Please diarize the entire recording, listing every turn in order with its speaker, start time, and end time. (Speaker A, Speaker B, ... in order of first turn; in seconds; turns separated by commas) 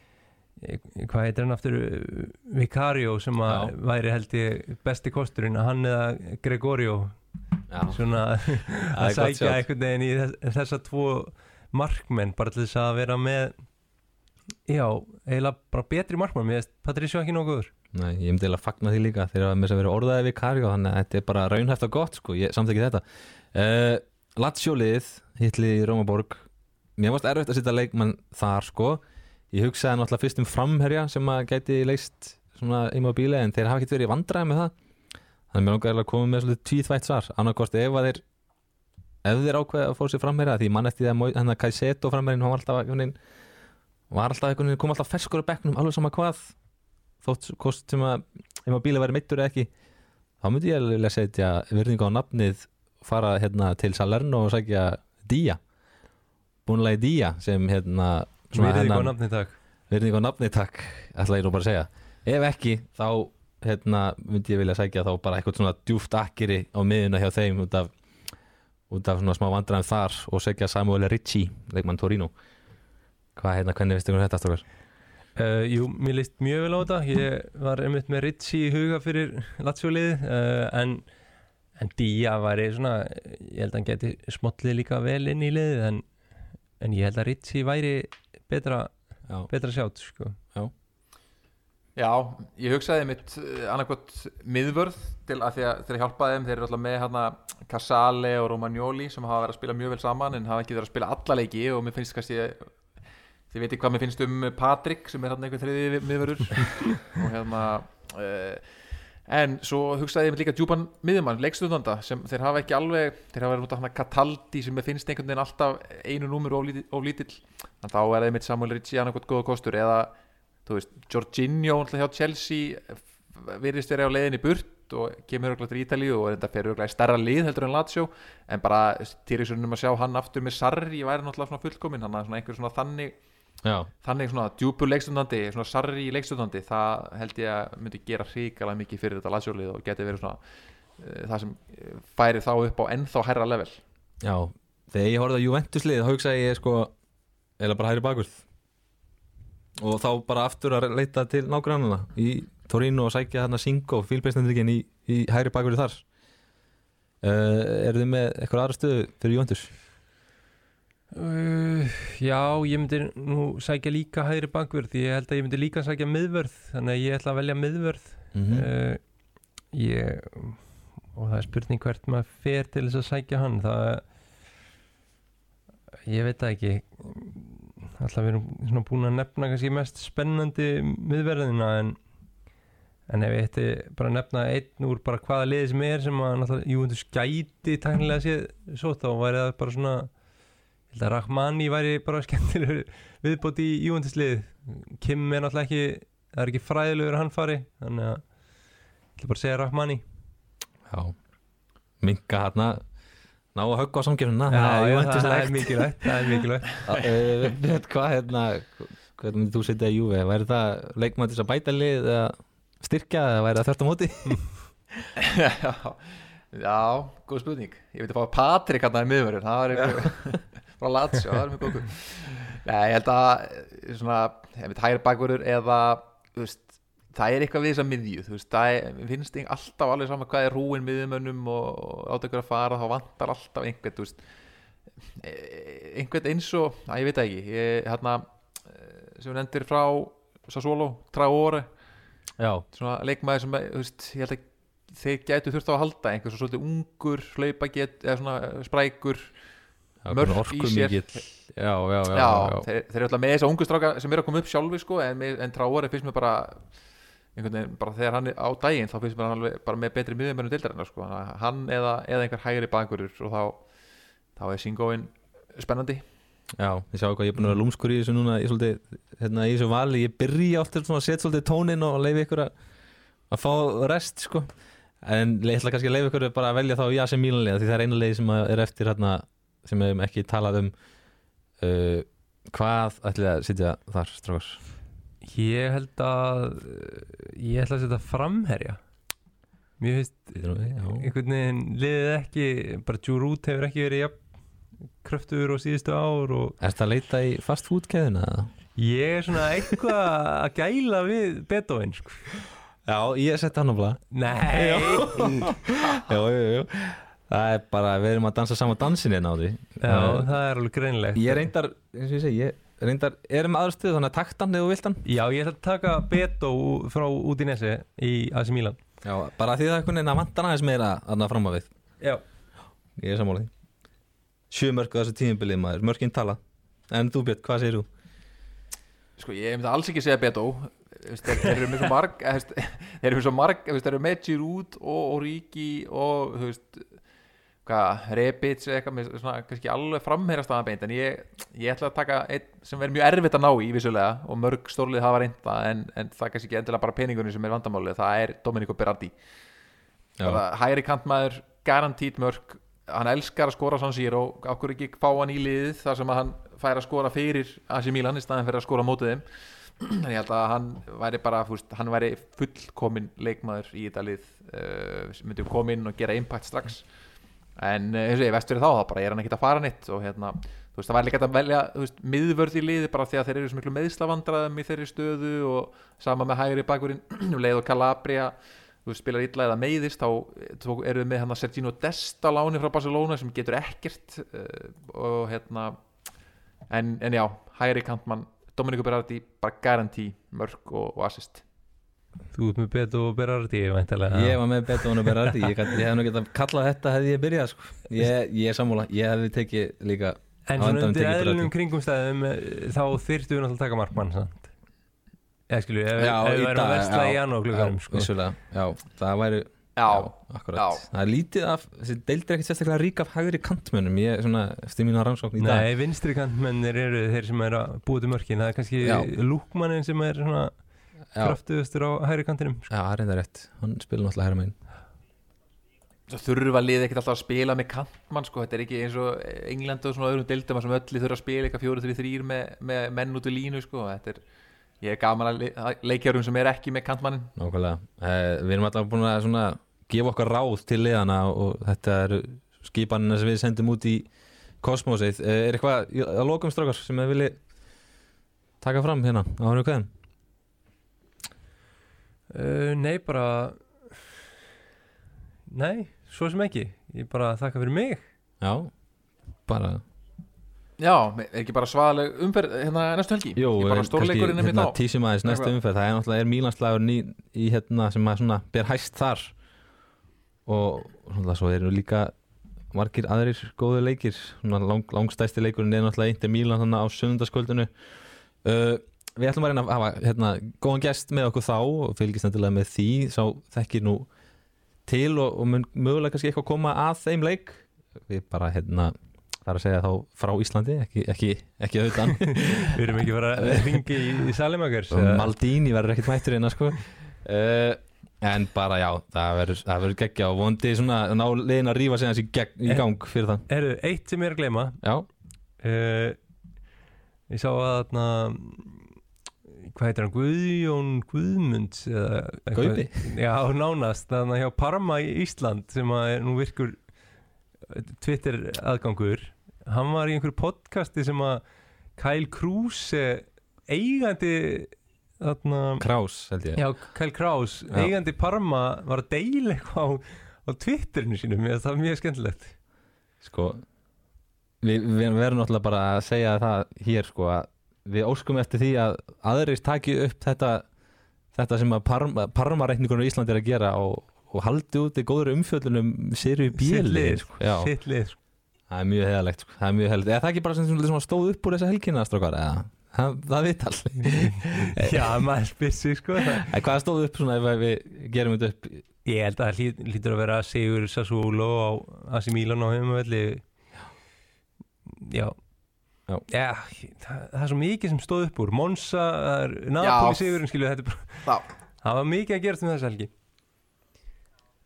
Speaker A: 0.6-7.2, Speaker B: 3.5-3.7, Speaker B: 7.7-8.0, Speaker A: 7.9-13.5, Speaker B: 8.9-9.6, Speaker A: 14.7-17.7, Speaker B: 17.9-26.5, Speaker B: 27.0-29.0, Speaker B: 29.5-34.7, Speaker B: 35.5-38.2, Speaker B: 39.2-43.1, Speaker B: 44.1-46.5, Speaker B: 47.2-49.7, Speaker B: 50.4-55.6, Speaker B: 56.7-59.1, Speaker A: 58.5-59.5, Speaker B: 59.9-67.9, Speaker B: 68.9-72.3, Speaker B: 73.4-74.6, Speaker A: 75.4-81.0, Speaker A: 81.8-86.0, Speaker A: 86.8-88.9, Speaker A: 89.5-90.4, Speaker C: 92.0-102.7, Speaker C: 103.5-108.7, Speaker C: 109.3-120.1, Speaker C: 120.7-133.2, Speaker B: 133.6-133.9, Speaker C: 134.0-140.4, Speaker C: 141.0-143.8, Speaker B: 144.2-146.9, Speaker B: 147.6-148.4, Speaker B: 149.8-156.0, Speaker B: 157.2-159.7, Speaker A: 161.1-169.0, Speaker B: 168.3-168.7, Speaker A: 169.7-174.0, Speaker A: 176.1-182.0, Speaker A: 183.1-190.1, Speaker A: 190.9-198.2, Speaker A: 199.2-200.0, Speaker B: 200.9-201.2, Speaker B: 202.0-202.8, Speaker B: 203.6-206.3, Speaker A: 204.5-206.8, Speaker B: 206.8-214.4, Speaker C: 215.2-234.2, Speaker C: 235.2-241.7, Speaker B: 242.4-242.7, Speaker C: 242.7-249.3, Speaker B: 250.0-252.7, Speaker C: 250.1-251.2, Speaker C: 252.1-256.7, Speaker C: 257.4-263.6, Speaker C: 264.4-266.0, Speaker B: 266.6-272.5, Speaker B: 273.3-274.5, Speaker B: 275.0-280.7, Speaker B: 281.6-284.6, Speaker A: 285.2-288.8, Speaker A: 289.8-294.2, Speaker B: 290.4-291.1, Speaker A: 295.0-296.6, Speaker B: 296.6-298.5, Speaker A: 298.8-302.3, Speaker B: 302.9-310.3, Speaker A: 304.1-305.6, Speaker A: 309.8-311.5, Speaker B: 311.1-315.0, Speaker A: 315.1-318.8, Speaker B: 319.0-321.7, Speaker B: 323.0-323.5, Speaker B: 324.5-327.9, Speaker C: 329.2-336.9, Speaker C: 337.6-349.1, Speaker C: 350.2-359.2, Speaker C: 359.8-366.9, Speaker C: 367.6-378.3, Speaker C: 378.9-385.8, Speaker C: 386.7-391.4, Speaker A: 392.3-395.5, Speaker B: 394.1-401.5, Speaker A: 400.5-404.5, Speaker A: 405.5-408.1, Speaker B: 406.0-415.7, Speaker C: 409.8-410.8, Speaker A: 415.4-420.5, Speaker B: 418.8-419.1, Speaker A: 421.2-422.7, Speaker B: 422.7-424.6, Speaker C: 426.1-434.2, Speaker C: 434.8-437.3, Speaker B: 437.4-444.1, Speaker B: 444.6-447.4, Speaker B: 448.6-449.9, Speaker A: 452.3-454.2, Speaker A: 455.5-458.0, Speaker B: 458.4-458.7, Speaker B: 459.5-459.8, Speaker C: 460.8-465.5, Speaker B: 463.4-469.3, Speaker B: 470.5-472.1, Speaker B: 472.7-477.7, Speaker B: 478.4-484.1, Speaker B: 484.9-488.9, Speaker B: 489.4-493.9, Speaker A: 492.2-495.3, Speaker B: 494.9-503.4, Speaker A: 503.5-504.8, Speaker B: 504.8-505.1, Speaker A: 505.6-506.2, Speaker A: 507.3-508.9, Speaker A: 509.6-516.8, Speaker B: 512.5-513.0, Speaker A: 517.7-521.4, Speaker A: 522.0-525.9, Speaker B: 525.8-526.6, Speaker A: 526.5-532.5, Speaker B: 533.2-533.6, Speaker B: 534.6-540.6, Speaker B: 541.3-547.7, Speaker A: 546.6-548.2, Speaker B: 548.7-555.2, Speaker A: 554.0-556.5, Speaker B: 556.2-558.9, Speaker A: 559.0-563.4, Speaker A: 564.9-565.4, Speaker A: 566.3-571.3, Speaker C: 569.8-570.4, Speaker A: 571.8-573.1